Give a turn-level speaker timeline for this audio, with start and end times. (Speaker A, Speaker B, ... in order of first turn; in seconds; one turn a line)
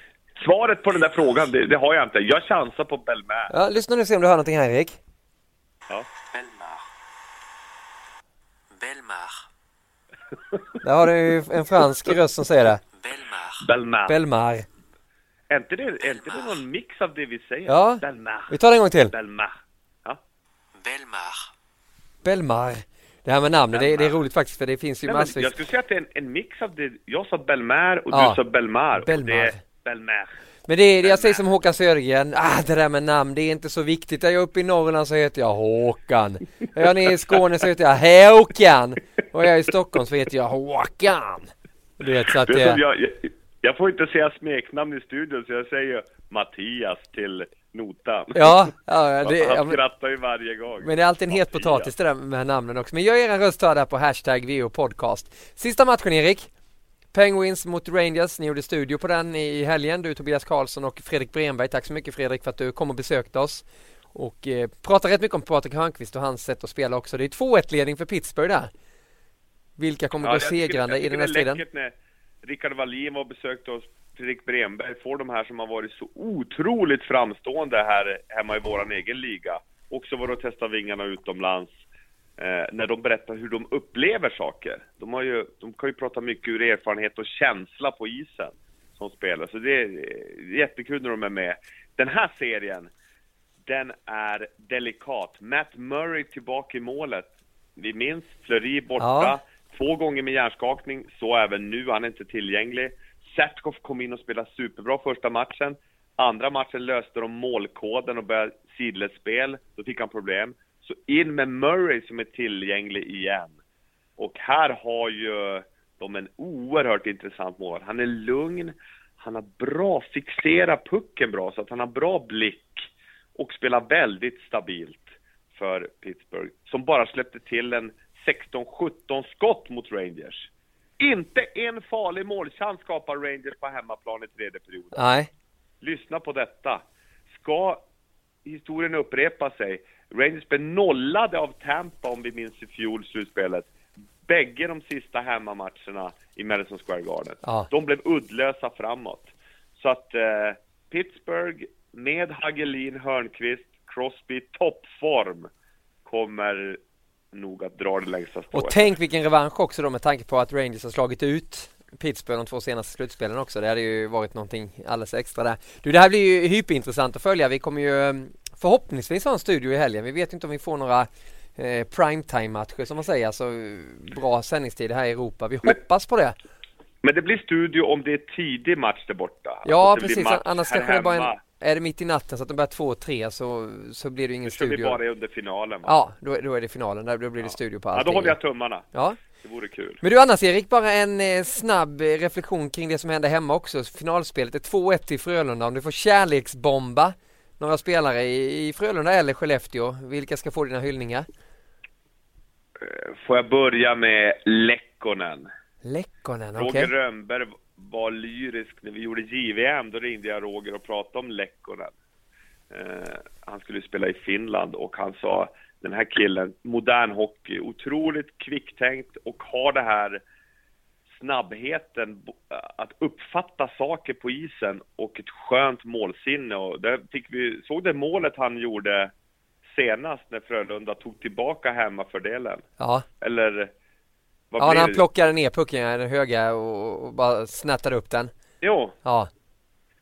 Speaker A: 0.4-3.5
Speaker B: 3.5-5.0
Speaker C: 6.2-6.8
Speaker C: 8.8-9.4
Speaker B: 10.8-12.8
Speaker C: 12.9-13.7
Speaker A: 13.6-14.2
Speaker B: 14.1-14.7
Speaker A: 15.5-18.6
Speaker C: 16.1-16.6
Speaker B: 17.7-19.1
Speaker A: 19.1-20.2
Speaker C: 20.8-21.5
Speaker B: 22.2-25.5
Speaker A: 23.7-24.2
Speaker A: 25.1-30.4
Speaker B: 28.1-28.4
Speaker B: 28.9-29.6
Speaker B: 30.7-42.8
Speaker A: 31.0-31.4
Speaker A: 42.5-48.7
Speaker B: 48.4-49.8
Speaker A: 49.2-51.9
Speaker B: 50.8-56.5
Speaker B: 57.1-68.7
Speaker B: 69.8-71.6
Speaker A: 70.2-81.8
Speaker A: 82.4-92.9
Speaker A: 93.7-113.6
Speaker B: 99.0-99.3
Speaker A: 114.2-130.5
Speaker A: 131.0-135.0
Speaker B: 134.9-135.3
Speaker A: 135.8-137.8
Speaker A: 138.4-143.7
Speaker A: 144.3-155.5
Speaker A: 156.1-156.8
Speaker A: 157.3-158.8
Speaker B: 158.5-176.4
Speaker A: 177.0-181.4
Speaker B: 179.7-185.0
Speaker A: 184.5-186.0
Speaker B: 185.8-188.4
Speaker A: 187.4-190.0
Speaker B: 190.0-201.3
Speaker A: 202.8-205.5
Speaker B: 205.8-206.9
Speaker A: 206.6-211.9
Speaker A: 212.7-220.2
Speaker A: 221.1-229.1
Speaker A: 229.7-232.7
Speaker B: 232.8-233.1
Speaker A: 233.2-233.7
Speaker A: 234.5-235.0
Speaker B: 234.6-238.3
Speaker A: 238.6-239.0
Speaker B: 239.1-239.3